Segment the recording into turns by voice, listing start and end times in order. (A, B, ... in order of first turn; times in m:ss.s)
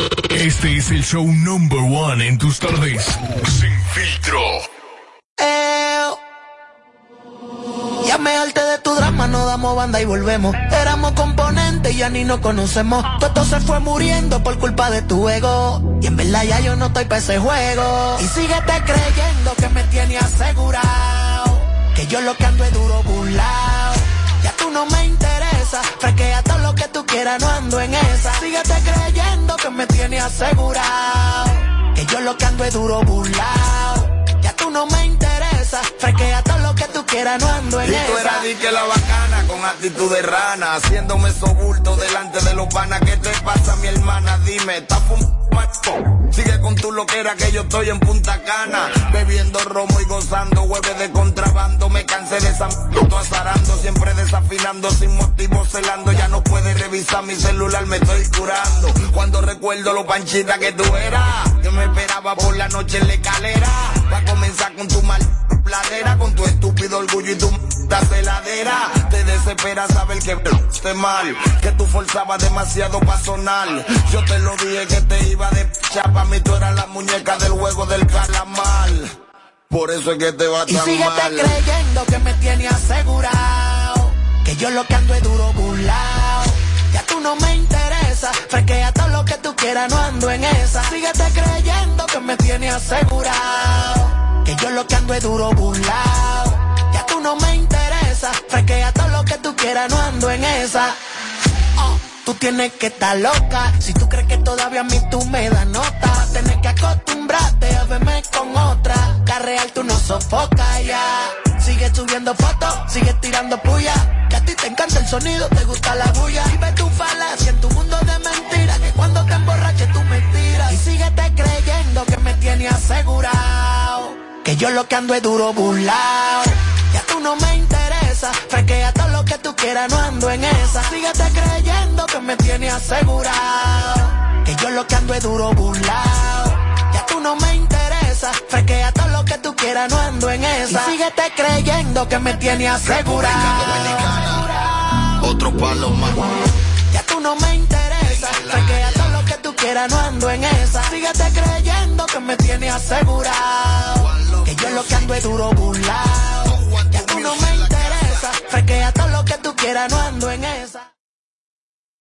0:00.3-0:04.6 A
0:05.4-0:06.2 B
0:08.0-0:38.5 B
0:37.8-1:19.1 C
1:19.7-1:21.6 C
1:20.7-1:41.0 B
1:41.8-2:25.1 B
2:22.8-2:24.5 C
2:25.2-2:26.4 C
2:26.9-2:40.9 B
2:28.1-2:29.2 C
2:34.0-2:35.3 C
2:36.5-2:38.3 C